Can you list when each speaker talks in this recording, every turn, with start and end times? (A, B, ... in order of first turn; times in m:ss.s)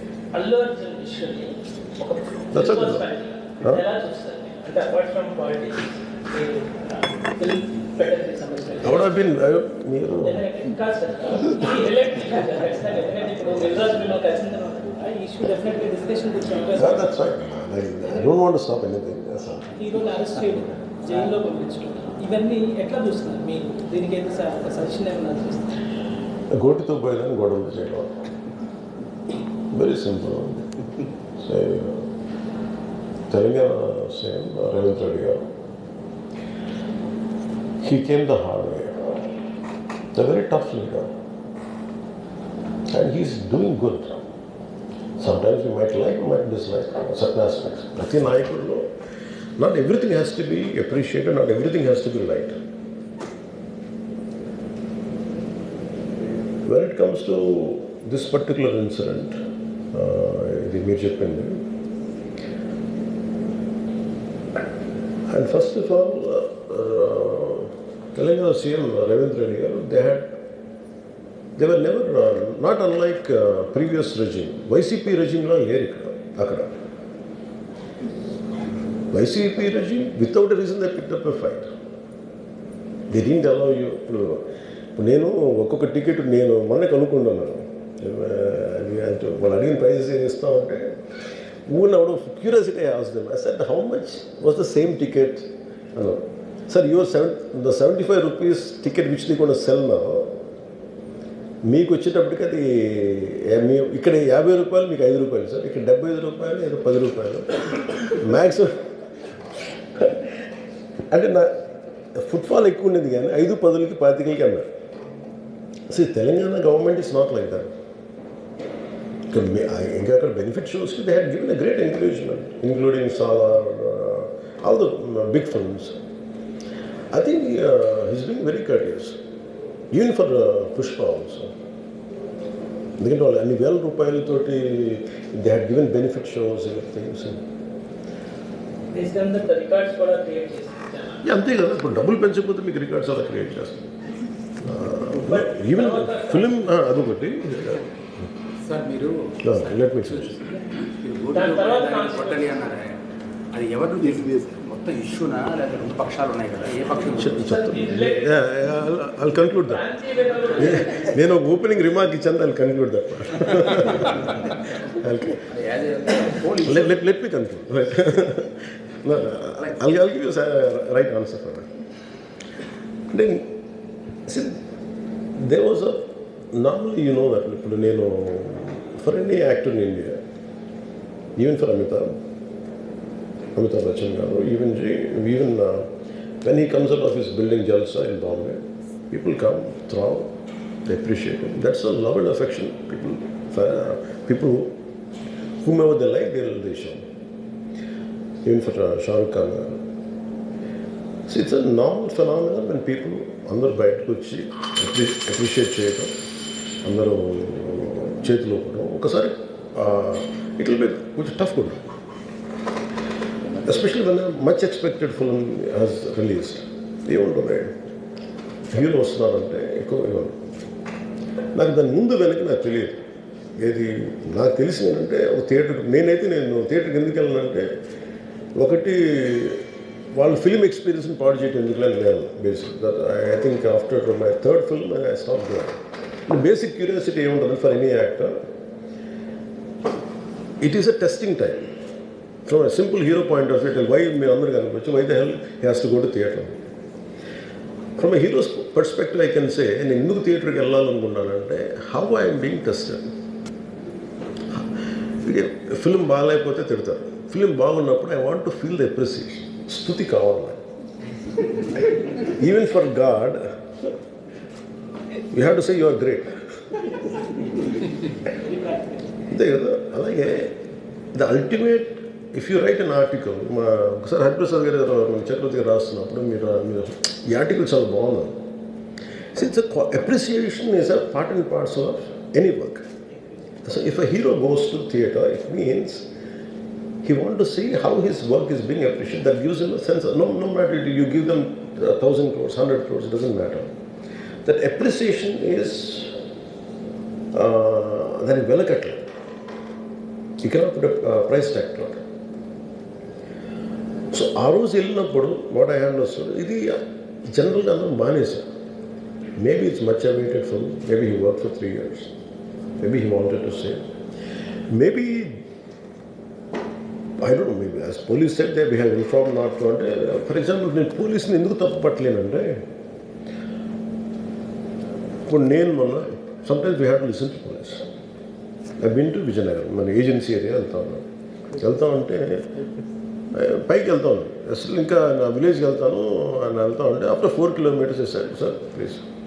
0:00.3-0:09.2 A
0:02.5-0:03.0 B
0:08.8-0:10.4 B
0:10.2-0:17.1 A
0:16.8-0:19.7 B
0:19.8-0:25.7 A
0:26.5-0:28.2 B
0:29.7-0:30.7 B
0:31.4-0:32.0 B
0:33.3-0:35.5 B
0:37.8-0:39.2 B
0:40.1-0:41.1 B
0:42.9-0:44.1 B
0:45.2-0:48.9 B
0:49.6-0:52.5 B
0:56.6-0:59.4 B
0:59.9-1:01.6 B
1:05.3-1:10.3 B
1:11.6-1:16.8 B
1:19.1-1:21.7 B
1:23.1-1:24.4 B
1:25.0-1:30.9 B
1:31.7-1:40.4 B
1:41.6-1:48.7 B
1:50.0-1:50.2 B
1:51.1-1:51.5 B
1:52.1-1:54.6 B
1:55.9-1:57.7 B
1:59.3-2:05.9 B
2:07.1-2:09.2 B
2:09.9-2:11.5 B
2:13.0-2:17.4 B
2:18.9-2:21.2 A
2:21.2-2:23.9 B
2:24.6-2:27.8 B
2:25.2-2:26.5 A
2:28.6-2:33.0 C
2:29.4-2:30.3 B
2:31.3-2:32.5 A
2:33.5-2:37.4 C
2:37.2-2:39.8 B
2:37.4-2:38.4 A
2:39.7-2:41.1 A
2:40.5-2:45.4 B
2:45.5-2:47.0 C
2:46.6-2:51.7 B
2:53.1-2:53.5 B
2:54.2-2:54.6 B
2:55.4-3:00.2 B
3:01.4-3:02.1 B
3:03.6-3:05.9 B
3:06.4-3:10.3 B
3:10.8-3:14.7 B
3:15.6-3:17.0 B
3:18.4-3:19.8 B
3:21.3-3:26.1 B
3:26.8-3:31.8 B
3:33.6-3:37.7 B
3:38.7-3:40.4 B
3:41.6-3:43.0 B
3:43.6-3:47.7 B
3:48.6-3:55.8 B
3:56.3-3:58.3 B
4:00.6-4:01.7 B
4:02.4-4:06.6 B
4:08.0-4:13.1 B
4:15.2-4:20.6 B
4:22.1-4:23.4 B
4:25.3-4:26.8 B
4:28.3-4:29.0 A
4:29.3-4:30.5 B
4:31.1-4:38.4 B
4:39.3-4:42.8 B
4:43.6-4:46.1 B
4:47.0-4:53.7 B
4:54.4-4:56.1 B
4:57.3-4:59.1 B
5:00.4-5:02.0 B
5:04.1-5:08.4 B
5:09.4-5:12.1 B
5:12.8-5:13.8 B
5:14.7-5:15.4 B
5:17.2-5:22.6 B
5:25.2-5:27.9 B
5:28.8-5:32.5 B
5:33.3-5:39.0 B